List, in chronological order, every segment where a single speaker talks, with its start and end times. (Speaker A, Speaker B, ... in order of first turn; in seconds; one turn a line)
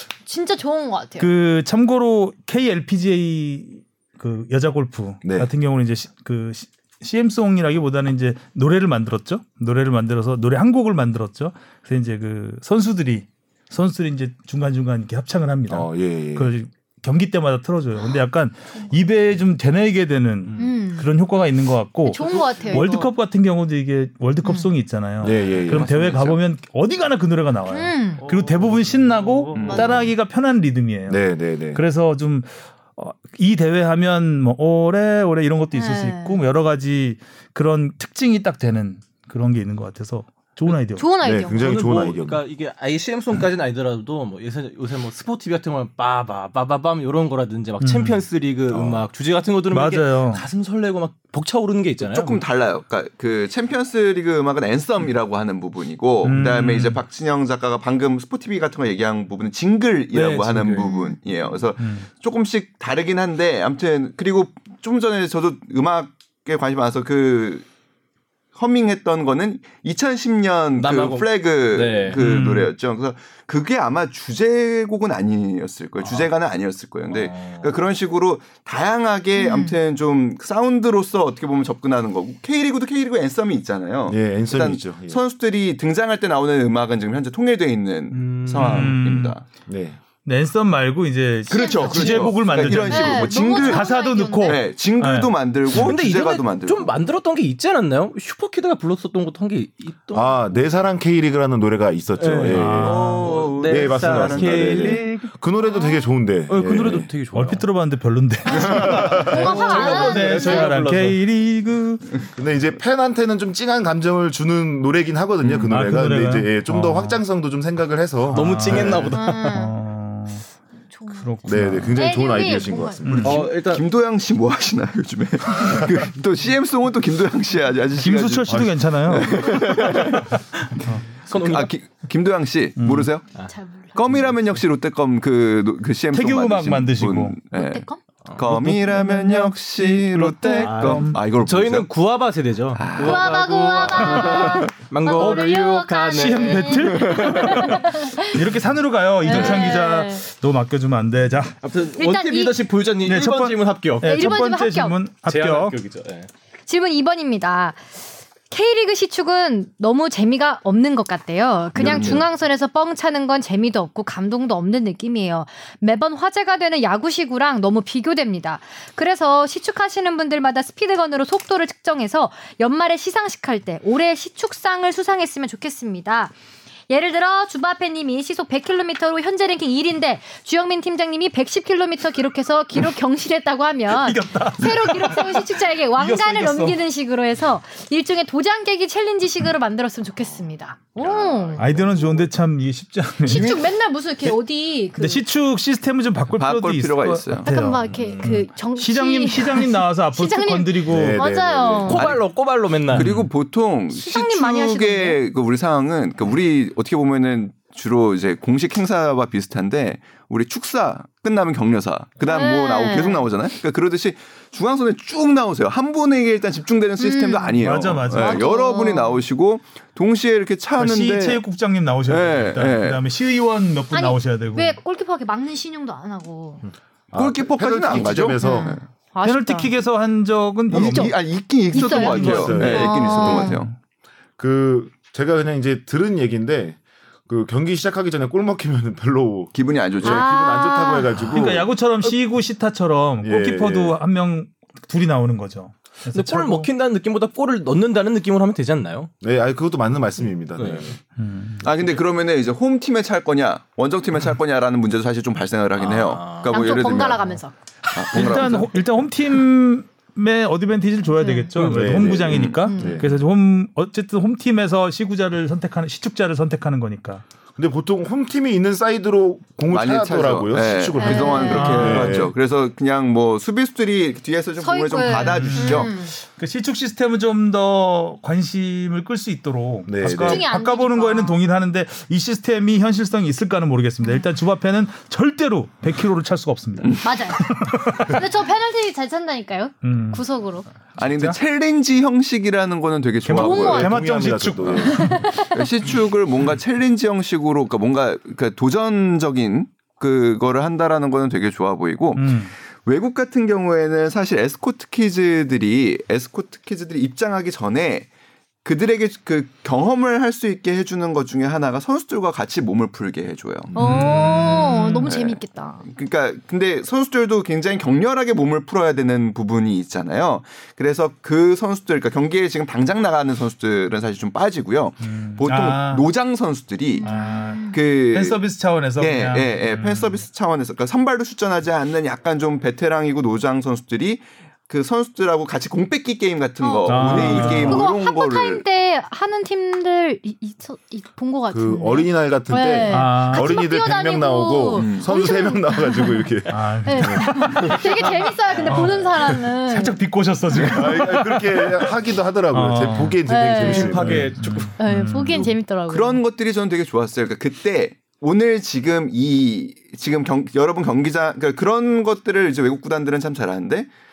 Speaker A: 0.2-1.3
Speaker B: 1.2-41.1
Speaker C: 5.2-5.5
Speaker C: 15.7-16.5
Speaker D: 20.5-20.7
Speaker A: 20.6-21.1
Speaker A: 22.1-23.1
Speaker D: 22.3-22.9
Speaker C: 25.2-26.3
Speaker E: 25.8-26.2
Speaker A: 27.7-28.2
Speaker D: 28.2-30.0
Speaker E: 29.6-30.0
Speaker A: 29.7-30.1
Speaker C: 31.1-31.8
Speaker A: 35.7-36.4
Speaker A: 41.0-41.8
Speaker C: 41.2-42.4
Speaker D: 41.5-52.4
Speaker B: 47.8-48.2
Speaker C: 48.7-49.0
Speaker B: 49.7-50.5
Speaker E: 52.0-67.7
Speaker B: 56.2-57.0
Speaker D: 60.1-60.9
Speaker A: 60.8-61.2
Speaker B: 61.8-62.1
Speaker E: 68.5-89.4
Speaker D: 70.8-72.4
Speaker B: 72.2-72.7
Speaker D: 76.0-76.3
Speaker D: 77.1-77.8
Speaker A: 79.4-79.8
Speaker C: 84.1-85.2
Speaker D: 88.1-89.0
Speaker B: 88.5-89.4
Speaker C: 89.7-90.0
Speaker B: 90.2-95.9
Speaker E: 91.5-93.9
Speaker A: 91.5-92.3
Speaker A: 92.9-94.6
Speaker E: 94.4-97.0
Speaker D: 95.7-100.6
Speaker C: 100.1-103.0
Speaker D: 102.2-105.3
Speaker B: 102.5-103.2
Speaker E: 102.8-105.2
Speaker C: 103.6-107.1
Speaker A: 105.8-106.1
Speaker D: 106.5-107.7
Speaker B: 107.3-112.2
Speaker A: 108.5-110.7
Speaker C: 108.7-109.3
Speaker D: 108.7-111.2
Speaker C: 112.3-119.1
Speaker D: 115.5-115.7
Speaker B: 115.7-117.2
Speaker B: 118.3-120.5
Speaker D: 118.3-119.6
Speaker A: 119.1-119.8
Speaker A: 120.9-123.0
Speaker B: 121.1-122.0
Speaker C: 121.5-123.5
Speaker B: 123.1-123.5
Speaker D: 123.2-123.8
Speaker E: 123.2-130.3
Speaker B: 128.0-131.1
Speaker C: 128.5-128.7
Speaker D: 129.7-130.1
Speaker D: 131.2-131.7
Speaker E: 131.3-133.3
Speaker B: 132.8-133.1
Speaker A: 133.4-134.0
Speaker E: 133.9-141.9
Speaker D: 134.1-134.6
Speaker B: 136.1-137.4
Speaker A: 137.5-138.0
Speaker D: 138.3-138.7
Speaker B: 138.5-141.2
Speaker D: 140.6-147.8
Speaker E: 142.7-143.2
Speaker A: 143.0-148.4
Speaker B: 144.1-144.5
Speaker B: 145.2-145.6
Speaker B: 146.1-151.6
Speaker A: 149.2-150.2
Speaker D: 151.6-154.4
Speaker A: 152.0-152.7
Speaker B: 153.0-155.8
Speaker A: 154.0-155.0
Speaker D: 155.3-156.3
Speaker A: 156.7-157.9
Speaker A: 158.5-176.3
Speaker C: 161.8-162.2
Speaker E: 161.8-162.2
Speaker A: 176.9-191.7
Speaker B: 183.9-186.8
Speaker B: 191.6-193.6
Speaker C: 191.6-192.3
Speaker A: 193.2-195.2
Speaker B: 195.0-201.2
Speaker E: 196.4-197.5
Speaker A: 197.4-202.1
Speaker D: 197.9-198.4
Speaker C: 200.9-202.0
Speaker D: 201.9-203.2
Speaker E: 201.9-202.3
Speaker E: 202.9-221.4
Speaker B: 202.9-203.3
Speaker A: 203.9-205.2
Speaker A: 212.2-213.2
Speaker A: 217.0-219.2
Speaker B: 217.6-218.5
Speaker B: 220.8-224.8
Speaker E: 222.1-223.0
Speaker A: 223.9-226.7
Speaker C: 227.1-228.8
Speaker E: 227.2-228.8
Speaker A: 228.3-229.8
Speaker B: 229.2-233.7
Speaker E: 230.7-233.7
Speaker A: 230.7-231.1
Speaker A: 231.7-233.6
Speaker C: 232.2-233.5
Speaker C: 234.4-241.7
Speaker E: 239.5-240.3
Speaker A: 240.0-241.3
Speaker B: 241.2-246.7
Speaker C: 243.2-244.0
Speaker D: 246.1-249.1
Speaker C: 249.2-251.0
Speaker D: 250.6-251.0
Speaker B: 251.2-251.7
Speaker D: 251.6-252.0
Speaker E: 251.6-257.3
Speaker D: 255.8-256.8
Speaker A: 256.5-257.6
Speaker E: 257.9-258.8
Speaker B: 258.1-267.2
Speaker A: 261.2-261.5
Speaker D: 261.6-262.0
Speaker C: 261.7-263.1
Speaker A: 262.6-262.9
Speaker C: 267.6-272.4
Speaker E: 269.7-275.9
Speaker A: 270.9-271.9
Speaker B: 271.4-272.3
Speaker A: 274.6-276.1
Speaker B: 275.1-288.2
Speaker C: 279.9-280.4
Speaker A: 280.2-281.4
Speaker A: 284.0-284.3
Speaker A: 287.0-287.5
Speaker A: 288.0-290.7
Speaker B: 289.8-290.3
Speaker E: 291.0-293.9
Speaker B: 291.0-291.4
Speaker B: 293.2-295.4
Speaker C: 293.3-295.2
Speaker A: 293.3-293.9
Speaker A: 294.8-295.6
Speaker E: 295.4-308.1
Speaker B: 302.2-302.5
Speaker E: 308.6-314.0
Speaker B: 313.8-314.8
Speaker A: 313.8-315.9
Speaker E: 314.7-328.4
Speaker B: 325.0-326.1
Speaker A: 327.0-327.8
Speaker B: 327.0-330.2
Speaker E: 329.0-338.6
Speaker A: 336.6-346.3
Speaker B: 336.9-337.9
Speaker C: 341.5-347.7
Speaker B: 342.9-343.6
Speaker E: 344.8-345.1
Speaker B: 346.5-352.0
Speaker A: 346.9-350.0
Speaker C: 350.5-354.4
Speaker B: 352.5-353.2
Speaker A: 353.2-354.0
Speaker D: 353.6-354.8
Speaker B: 353.8-355.5
Speaker A: 354.8-356.2
Speaker E: 355.9-363.9